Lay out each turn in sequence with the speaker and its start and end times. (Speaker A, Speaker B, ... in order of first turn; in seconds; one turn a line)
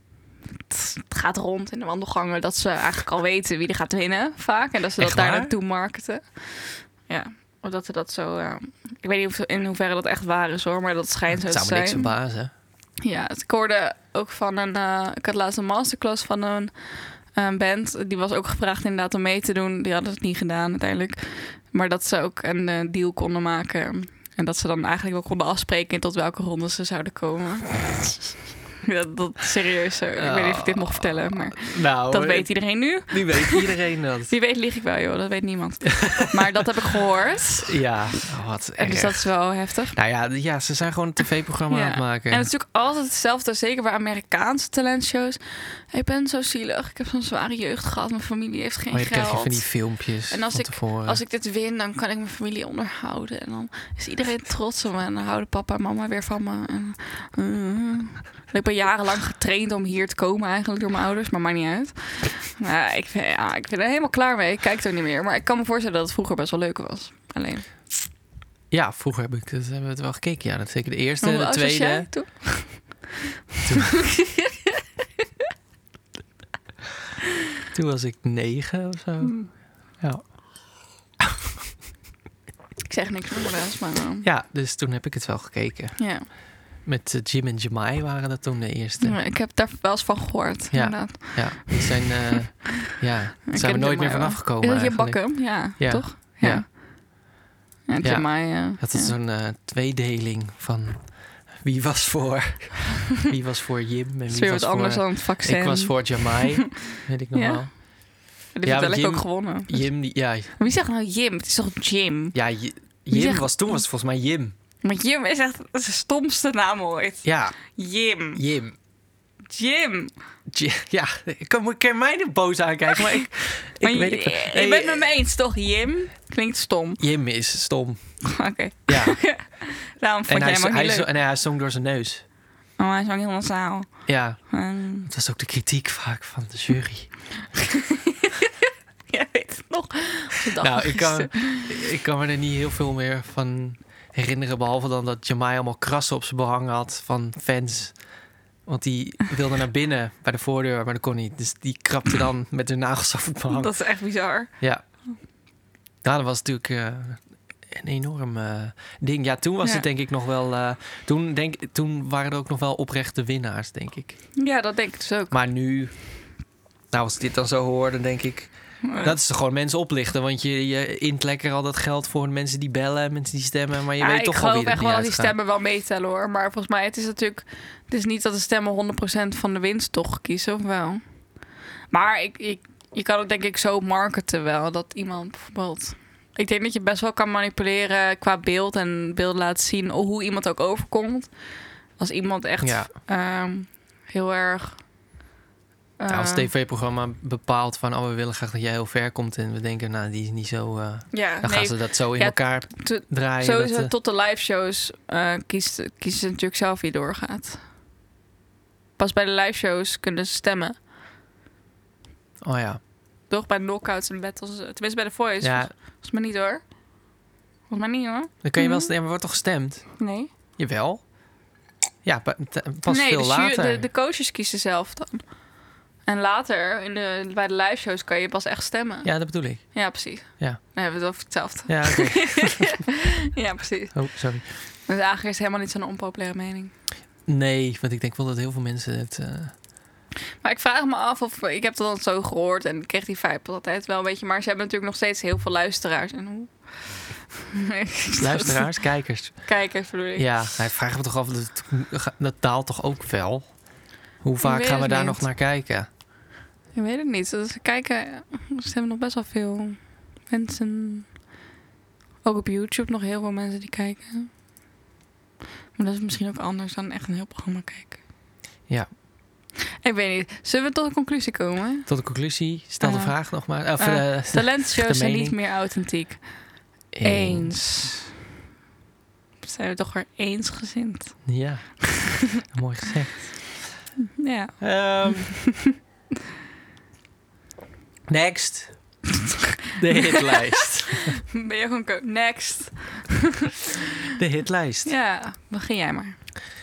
Speaker A: 0.7-12.2
Speaker B: 5.0-5.5
Speaker B: 11.4-12.5
Speaker A: 13.0-33.7
Speaker B: 30.2-34.3
Speaker A: 34.3-37.8
Speaker B: 37.6-39.4
Speaker A: 38.8-40.0
Speaker B: 39.9-42.5
Speaker A: 41.7-67.7
Speaker B: 48.9-51.2
Speaker B: 68.7-72.1
Speaker A: 71.2-73.1
Speaker B: 73.7-74.1
Speaker A: 73.7-74.8
Speaker B: 77.7-80.5
Speaker A: 79.2-79.5
Speaker A: 82.9-84.3
Speaker B: 84.2-89.2
Speaker A: 86.0-86.3
Speaker A: 89.0-92.9
Speaker B: 90.7-96.7
Speaker A: 93.5-96.8
Speaker A: 97.9-99.1
Speaker B: 98.0-107.8
Speaker A: 104.3-112.4
Speaker B: 108.6-110.5
Speaker B: 112.3-114.5
Speaker A: 113.1-113.8
Speaker A: 114.8-118.4
Speaker B: 117.2-117.8
Speaker B: 118.3-118.8
Speaker A: 119.5-120.1
Speaker B: 120.5-125.1
Speaker A: 123.8-127.0
Speaker B: 127.0-129.4
Speaker A: 128.2-131.1
Speaker B: 130.3-132.2
Speaker A: 132.8-135.1
Speaker B: 134.1-137.1
Speaker A: 137.7-138.5
Speaker A: 139.1-141.7
Speaker B: 140.6-148.0
Speaker B: 148.7-153.7
Speaker A: 153.5-154.6
Speaker B: 156.0-164.2
Speaker A: 164.4-165.4
Speaker B: 165.3-166.2
Speaker B: 166.9-175.3
Speaker A: 168.8-169.2
Speaker A: 174.0-181.3
Speaker A: 181.9-191.3
Speaker A: 191.9-194.9
Speaker B: 192.6-192.9
Speaker A: 196.0-196.5
Speaker B: 196.1-203.9
Speaker A: 201.1-207.6
Speaker A: 209.0-210.8
Speaker B: 212.4-212.8
Speaker A: 213.3-216.8
Speaker B: 215.4-215.7
Speaker A: 217.7-218.9
Speaker B: 218.4-221.1
Speaker A: 220.0-220.3
Speaker B: 222.0-223.9
Speaker A: 222.9-225.4
Speaker A: 226.1-236.7
Speaker B: 229.1-230.6
Speaker B: 231.7-232.8
Speaker B: 233.9-234.4
Speaker B: 237.3-239.6
Speaker A: 240.4-248.9
Speaker B: 248.2-249.5
Speaker A: 249.4-250.3
Speaker B: 250.2-253.7
Speaker B: 254.2-255.9
Speaker A: 254.4-255.3
Speaker A: 256.7-261.2
Speaker A: 262.2-264.3
Speaker A: 265.8-268.0
Speaker A: 269.8-271.9
Speaker B: 271.9-275.4
Speaker A: 272.8-278.1
Speaker B: 276.9-277.9
Speaker A: 279.4-281.3
Speaker B: 281.3-283.8
Speaker A: 284.2-285.8
Speaker B: 284.6-285.4
Speaker B: 288.1-289.0
Speaker B: 289.8-291.2
Speaker A: 289.9-293.8
Speaker B: 294.1-294.9
Speaker A: 294.9-296.2